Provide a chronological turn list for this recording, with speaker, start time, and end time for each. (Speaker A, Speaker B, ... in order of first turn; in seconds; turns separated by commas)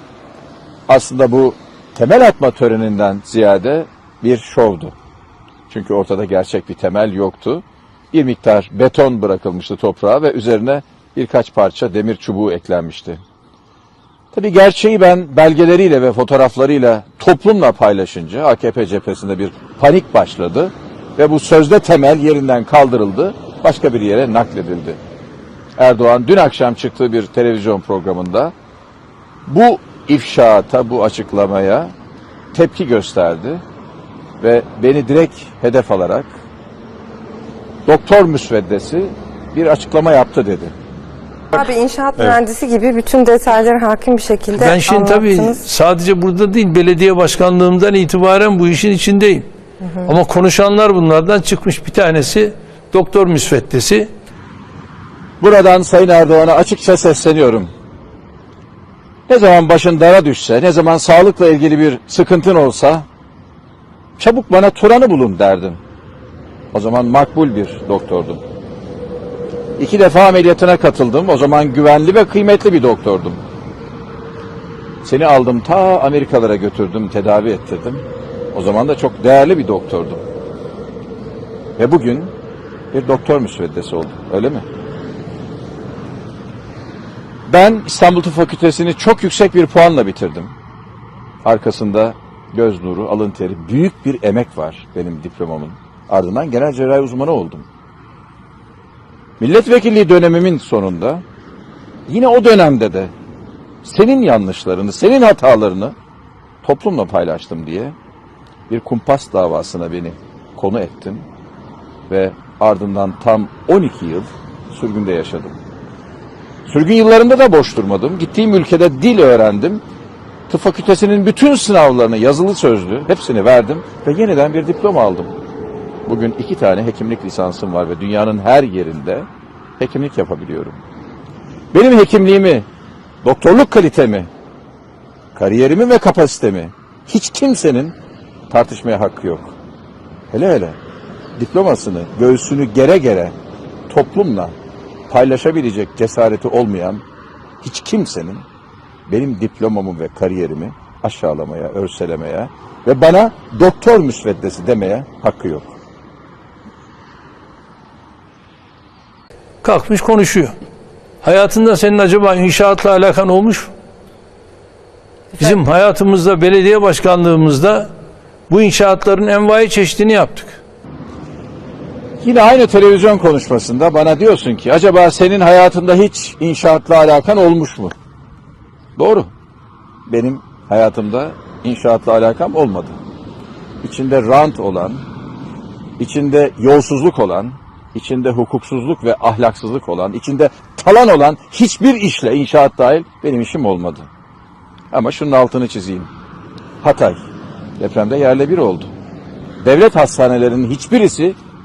Speaker A: 0.9-4.9, Speaker A: 5.7-13.2, Speaker A: 14.3-25.0, Speaker A: 25.8-28.5, Speaker A: 29.5-31.9, Speaker A: 32.5-33.6, Speaker A: 34.4-36.4, Speaker A: 37.9-40.8, Speaker B: 41.5-45.6, Speaker C: 44.5-49.5, Speaker B: 49.8-50.1, Speaker C: 50.0-54.1, Speaker A: 55.4-57.7, Speaker A: 59.3-63.0, Speaker A: 64.2-65.8, Speaker A: 66.7-68.4, Speaker A: 69.8-73.4, Speaker A: 75.0-80.2, Speaker A: 81.8-82.3, Speaker A: 82.9-84.7, Speaker A: 87.5-90.5, Speaker A: 91.4-97.7, Speaker A: 99.4-101.2, Speaker A: 102.1-103.1, Speaker A: 103.8-106.0, Speaker A: 106.6-108.0, Speaker A: 108.7-111.3, Speaker A: 112.1-115.6, Speaker A: 116.7-119.8, Speaker A: 120.5-125.3, Speaker A: 126.1-129.3, Speaker A: 129.8-130.8, Speaker A: 131.7-132.7, Speaker A: 133.2-134.3, Speaker A: 135.3-138.0, Speaker A: 138.5-139.6, Speaker A: 140.3-140.8, Speaker A: 141.4-143.3, Speaker A: 143.9-144.6, Speaker A: 145.1-147.0, Speaker A: 147.6-148.5, Speaker A: 149.1-155.8, Speaker C: 159.6-160.6, Speaker C: 161.2-163.7, Speaker C: 165.4-167.9, Speaker C: 168.5-170.6, Speaker A: 172.2-177.9, Speaker A: 179.0-179.3, Speaker A: 180.1-183.0, Speaker A: 183.8-185.1, Speaker A: 186.0-194.1, Speaker A: 194.9-196.1, Speaker A: 196.8-197.2, Speaker A: 197.8-198.9, Speaker A: 199.6-201.4